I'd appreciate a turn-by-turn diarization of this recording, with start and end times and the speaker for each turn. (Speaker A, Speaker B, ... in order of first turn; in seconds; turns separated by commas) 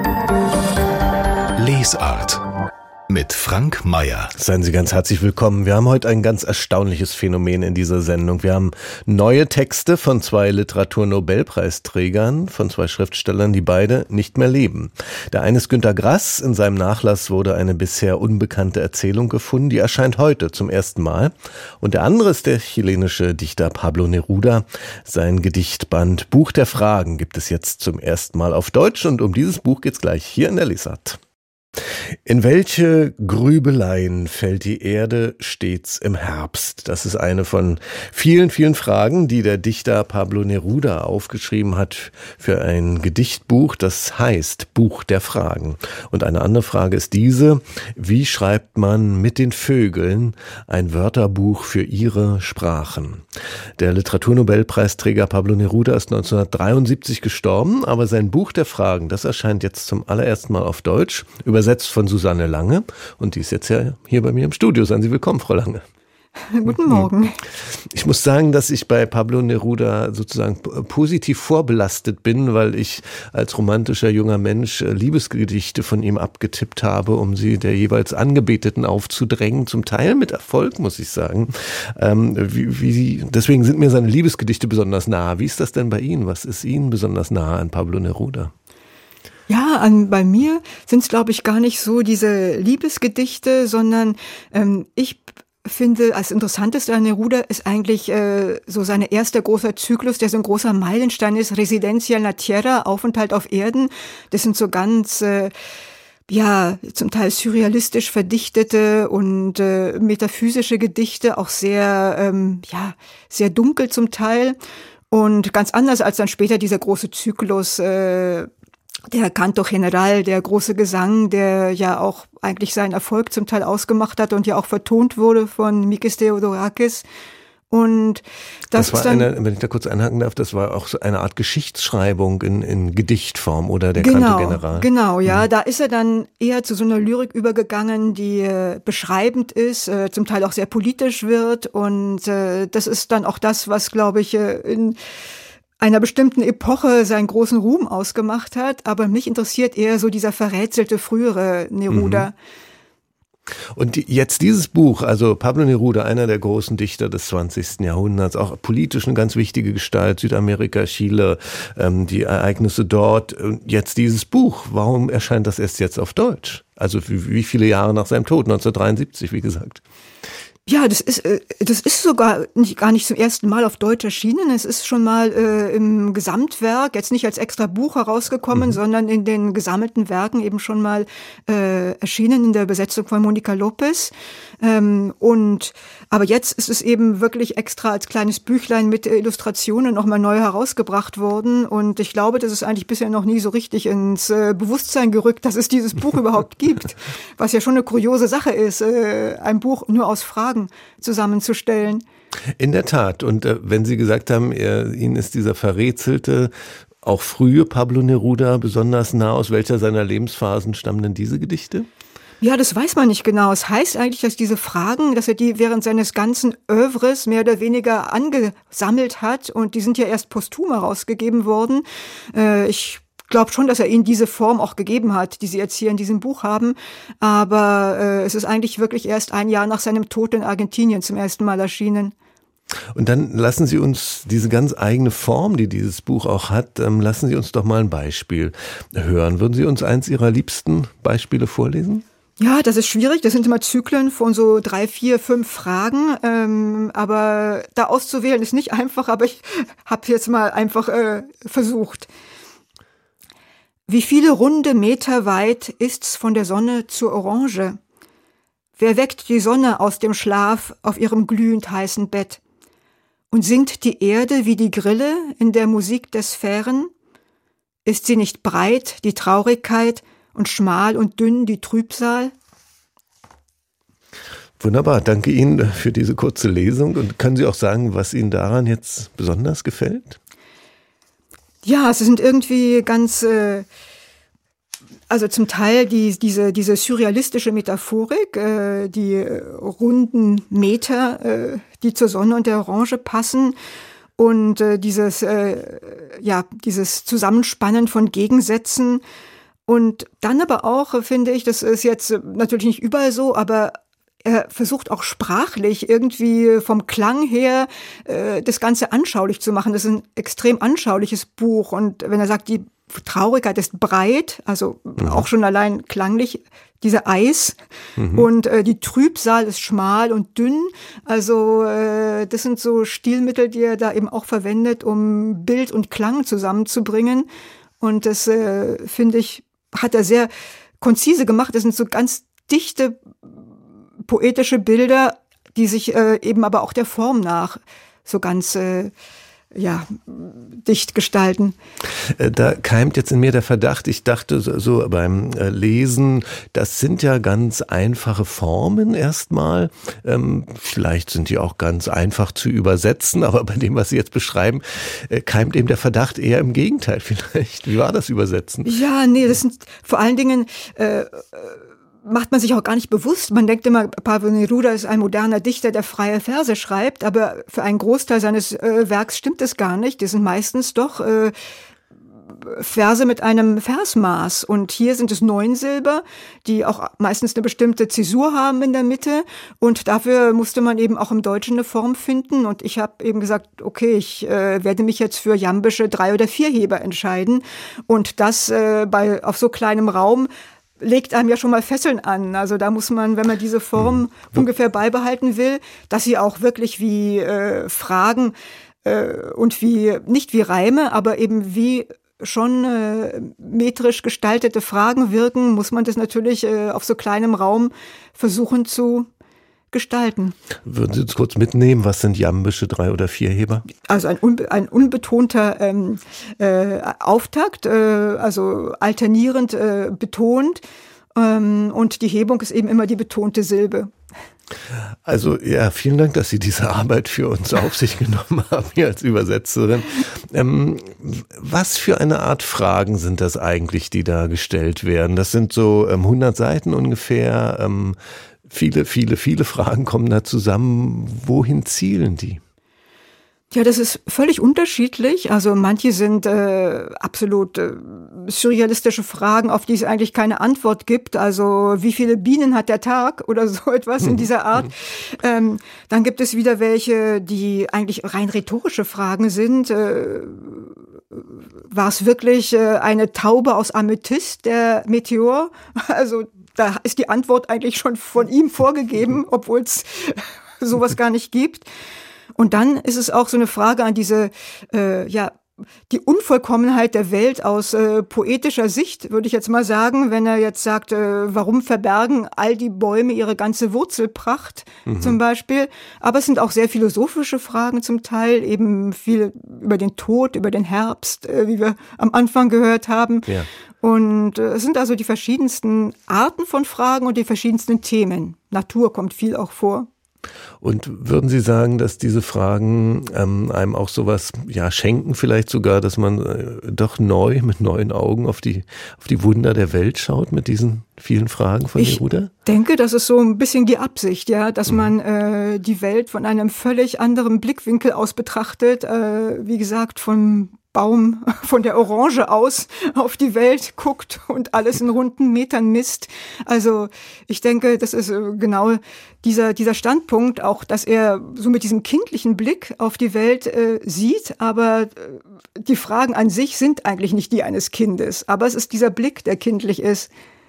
Speaker A: 1.6-2.4, Speaker A: 3.1-4.3, Speaker B: 4.4-31.2, Speaker B: 32.2-53.2, Speaker B: 53.8-65.8, Speaker C: 66.5-67.4, Speaker B: 66.7-67.1, Speaker B: 67.6-88.5, Speaker C: 89.5-105.5, Speaker C: 106.3-114.6, Speaker C: 115.1-118.5, Speaker C: 119.1-127.0, Speaker C: 127.7-129.3, Speaker B: 128.7-135.4, Speaker C: 134.0-145.0, Speaker C: 145.8-152.3, Speaker B: 151.9-152.3, Speaker B: 153.8-169.8, Speaker C: 170.7-202.0, Speaker B: 202.6-211.9, Speaker C: 212.4-232.1, Speaker B: 232.9-242.0, Speaker C: 242.4-252.1, Speaker C: 253.9-257.8, Speaker C: 258.8-262.4, Speaker C: 263.3-266.9, Speaker C: 267.9-272.3, Speaker B: 274.6-280.2, Speaker C: 281.6-283.6, Speaker C: 285.1-293.6, Speaker C: 294.2-299.0, Speaker C: 299.7-317.6, Speaker B: 315.0-315.2, Speaker B: 318.0-318.3, Speaker C: 318.1-327.3, Speaker C: 327.8-333.0, Speaker C: 334.1-338.9, Speaker C: 339.6-341.6, Speaker B: 342.1-358.7, Speaker C: 358.6-371.3, Speaker C: 372.4-398.3, Speaker C: 398.8-409.1, Speaker C: 409.7-410.4, Speaker B: 410.6-413.6, Speaker C: 413.8-420.6, Speaker C: 421.1-423.9, Speaker B: 425.1-438.0, Speaker B: 438.5-442.4, Speaker C: 443.5-471.6, Speaker C: 472.4-475.4, Speaker C: 475.9-493.3, Speaker B: 484.9-485.2, Speaker C: 493.8-499.9, Speaker B: 500.6-512.3, Speaker C: 511.8-540.1